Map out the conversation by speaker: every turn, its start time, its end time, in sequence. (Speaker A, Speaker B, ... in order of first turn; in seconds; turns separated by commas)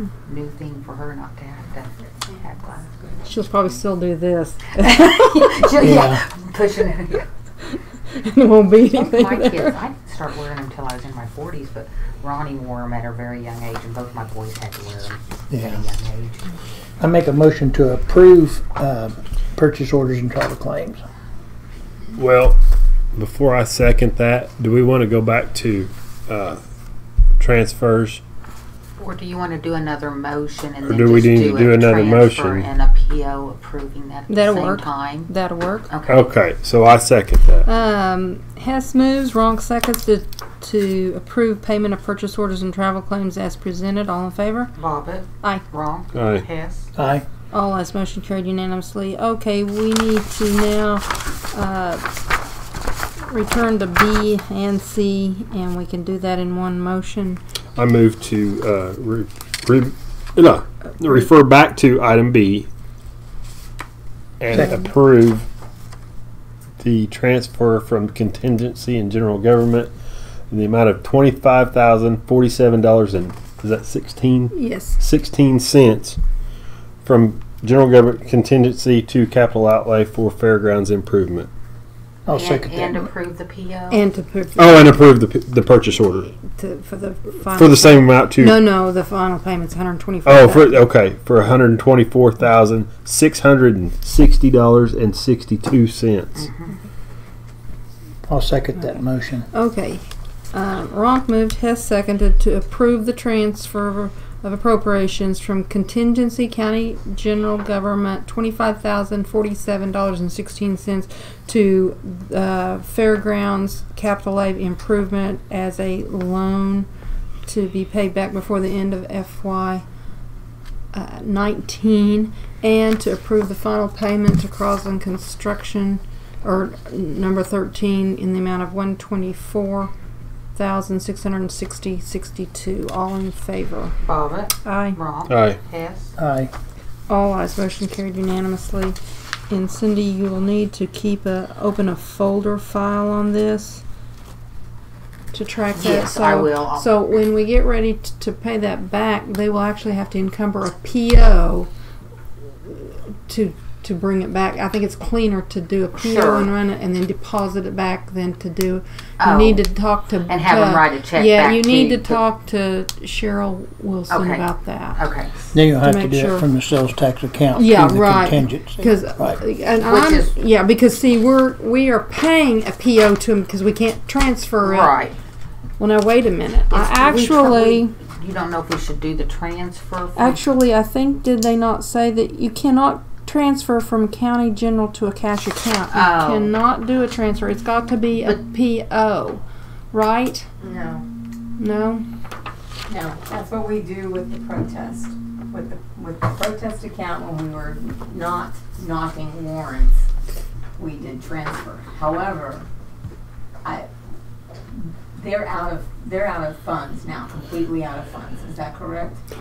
Speaker A: 0.2-3.2, Speaker B: 3.2-5.7, Speaker A: 4.8-7.2, Speaker C: 5.8-6.2, Speaker B: 8.1-9.8, Speaker A: 8.9-16.5, Speaker C: 15.5-15.8, Speaker C: 17.0-21.0, Speaker D: 22.1-22.6, Speaker D: 23.1-26.6, Speaker D: 27.4-28.2, Speaker A: 29.0-35.3, Speaker D: 30.8-32.7, Speaker B: 34.3-35.9, Speaker A: 35.9-36.2, Speaker D: 36.0-37.7, Speaker B: 37.6-44.7, Speaker A: 44.8-46.9, Speaker D: 46.1-46.4, Speaker C: 47.0-47.2, Speaker B: 47.5-52.0, Speaker B: 53.3-57.4, Speaker D: 57.8-62.7, Speaker D: 64.4-65.5, Speaker D: 66.8-69.9, Speaker D: 70.5-76.2, Speaker B: 74.5-75.0, Speaker D: 77.0-81.5, Speaker C: 82.2-83.0, Speaker A: 82.3-84.0, Speaker B: 83.9-85.1, Speaker D: 84.5-86.3, Speaker B: 86.3-90.8, Speaker D: 87.5-88.7, Speaker D: 90.2-96.5, Speaker A: 96.4-96.7, Speaker C: 98.2-99.5, Speaker B: 99.5-116.9, Speaker B: 117.4-119.8, Speaker B: 120.9-129.9, Speaker B: 130.6-133.9, Speaker A: 134.0-136.1, Speaker B: 134.6-135.0, Speaker D: 135.3-135.6, Speaker C: 136.2-136.5, Speaker B: 137.1-139.0, Speaker B: 139.5-143.8, Speaker B: 145.3-151.7, Speaker A: 145.7-146.9, Speaker B: 152.7-165.0, Speaker A: 156.0-156.5, Speaker A: 159.2-159.7, Speaker A: 160.3-162.2, Speaker A: 164.1-165.3, Speaker C: 165.5-169.4, Speaker B: 165.8-166.4, Speaker B: 167.5-174.9, Speaker A: 169.8-170.3, Speaker A: 174.6-175.2, Speaker B: 175.8-177.9, Speaker A: 176.7-180.4, Speaker B: 180.2-190.6, Speaker A: 185.9-186.5, Speaker E: 190.6-191.0, Speaker B: 191.6-192.0, Speaker E: 192.9-200.0, Speaker E: 200.8-202.7, Speaker E: 205.1-209.2